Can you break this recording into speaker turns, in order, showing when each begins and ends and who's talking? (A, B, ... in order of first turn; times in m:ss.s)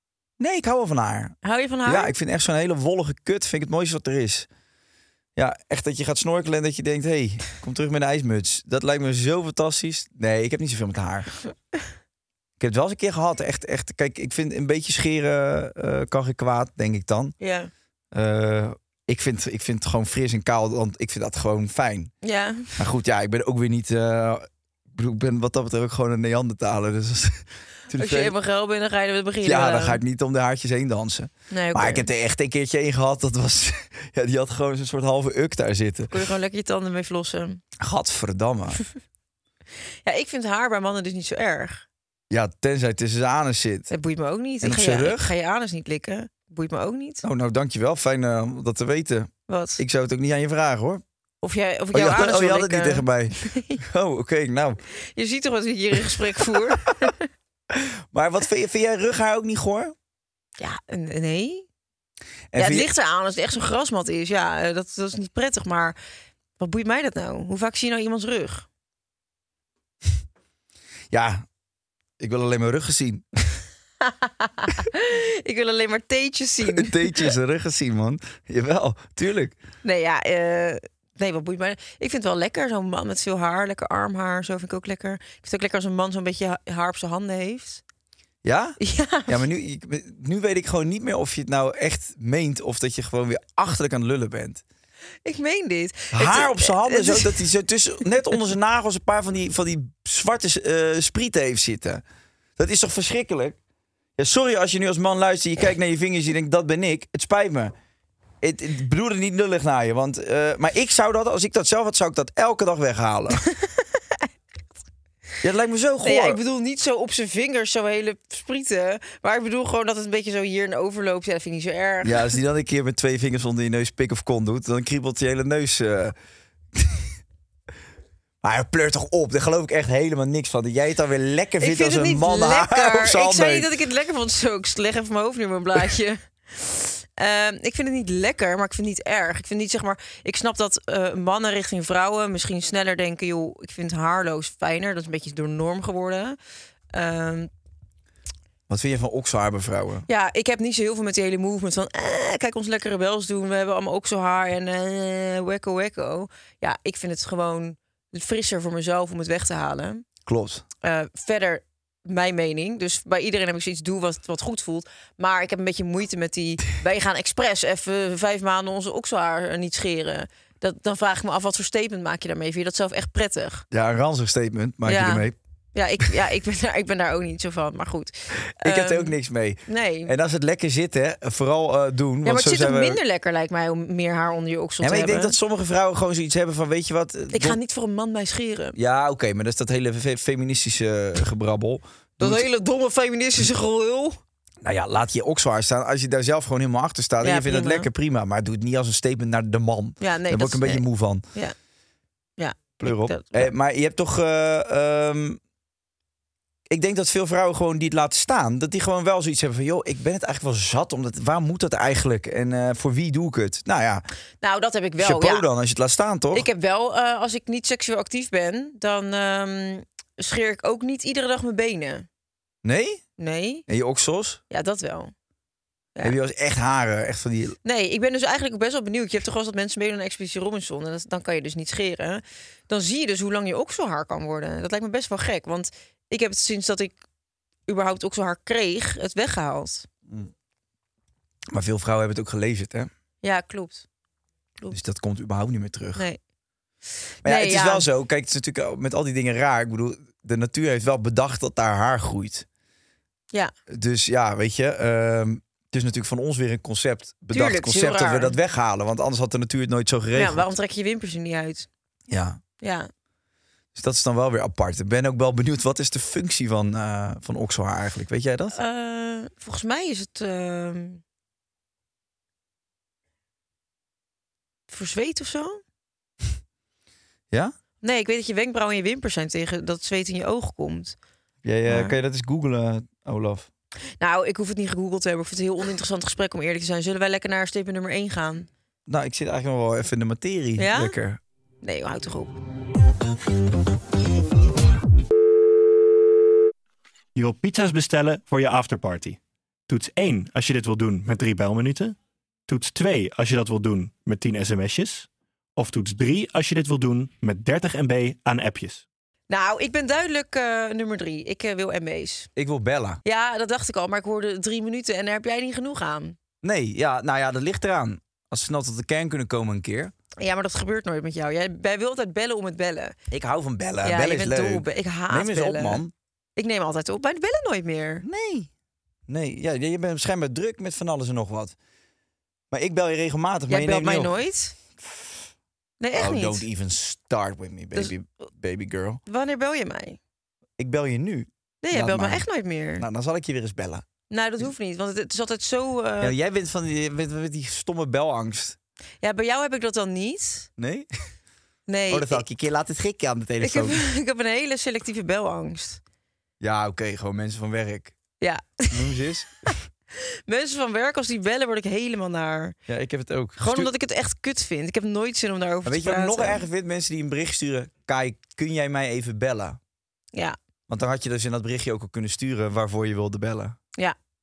0:00.4-0:04.5 A
0:01.4-0:02.1 B
0:05.4-0:11.3 A
0:12.6-0:17.3 A
0:17.4-0:17.7 B
0:18.1-0:22.1 A
0:22.2-0:22.7 B
0:22.8-0:28.3 A
0:27.9-0:30.0 B
0:29.4-0:36.1 A
0:31.5-0:32.1 B
0:36.1-0:37.6 B
0:37.8-0:38.8 A
0:40.0-0:41.8 B
0:42.3-0:43.9 A
0:43.9-0:47.2 B
0:44.6-0:45.3 A
0:47.2-0:51.0 A
0:49.5-0:49.8 B
0:51.4-0:53.8 B
0:51.9-0:54.8 A
0:55.0-0:57.3 B
0:57.7-0:59.9 A
1:00.6-1:01.7 B
1:02.5-1:02.9 A
1:02.5-1:06.0 B
1:06.6-1:08.7 B
1:11.1-1:11.4 A
1:12.2-1:13.2 A
1:14.0-1:17.3 B
1:16.6-1:19.6 A
1:19.8-1:27.8 B
1:28.4-1:34.6 A
1:28.8-1:29.4 B
1:35.2-1:37.4 B
1:36.1-1:42.0 A
1:42.6-1:43.6 A
1:44.2-1:47.7 A
1:48.4-1:53.4 A
1:53.5-1:53.8 B
1:55.4-1:56.4 A
1:56.0-2:02.3 B
2:02.0-2:06.1 A
2:06.7-2:07.1 A
2:08.4-2:13.7 A
2:11.6-2:26.4 B
2:26.9-2:27.5 B
2:28.7-2:30.1 A
2:30.1-2:40.1 B
2:40.2-2:40.6 A
2:40.8-2:53.6 B
2:53.7-2:55.4 A
2:54.8-2:59.1 B
2:58.6-3:03.0 A
2:59.7-3:00.1 B
3:02.2-3:05.4 B
3:04.8-3:07.6 A
3:07.3-3:08.8 B
3:08.8-3:12.4 A
3:12.2-3:14.2 B
3:14.6-3:21.2 A
3:17.2-3:17.9 B
3:20.0-3:21.5 B
3:22.4-3:23.5 B
3:22.8-3:25.4 A
3:26.7-3:34.0 A
3:34.4-3:35.4 B
3:35.0-3:36.5 A
3:36.3-3:42.1 B
3:42.6-3:43.0 A
3:43.2-3:43.6 B
3:43.7-3:44.4 A
3:44.5-3:45.1 B
3:46.0-3:47.6 A
3:47.6-3:57.0 B
3:57.7-3:59.9 B
4:01.5-4:02.9 A
4:03.2-4:03.8 B
4:04.7-4:06.0 A
4:05.9-4:06.2 B
4:07.2-4:07.9 B
4:07.2-4:12.4 A
4:13.7-4:20.4 A
4:17.3-4:18.4 B
4:20.1-4:21.7 B
4:22.1-4:22.4 A
4:22.6-4:22.9 B
4:23.7-4:28.6 A
4:28.5-4:31.0 B
4:34.7-4:35.6 B
4:37.8-4:41.0 B
4:41.4-4:43.5 A
4:41.7-4:42.0 B
4:44.0-4:48.5 B
4:48.9-4:51.2 A
4:50.6-4:50.9 B
4:51.6-4:52.3 B
4:57.1-5:02.0 C
5:02.5-5:08.8 C
5:09.3-5:12.3 B
5:12.4-5:13.0 A
5:13.0-5:16.2 B
5:16.4-5:19.9 A
5:20.2-5:23.0 B
5:23.1-5:25.9 A
5:23.8-5:25.8 B
5:26.4-5:28.0 B
5:28.0-5:28.5 A
5:29.1-5:31.6 A
5:32.5-5:34.1 A
5:33.5-5:34.6 B
5:35.8-5:36.4 B
5:35.9-5:39.0 A
5:39.0-5:40.0 B
5:40.6-5:42.2 A
5:41.6-5:42.8 B
5:42.8-5:43.8 A
5:44.1-5:46.1 B
5:46.0-5:48.6 A
5:49.0-5:50.5 B
5:50.6-5:50.9 A
5:51.7-5:52.2 B
5:51.9-5:53.8 A
5:53.4-5:55.8 B
5:56.4-5:58.0 A
5:58.2-6:02.6 B
5:58.7-5:59.6 A
6:02.7-6:03.7 A
6:03.4-6:06.4 B
6:05.6-6:09.6 A
6:10.7-6:13.6 A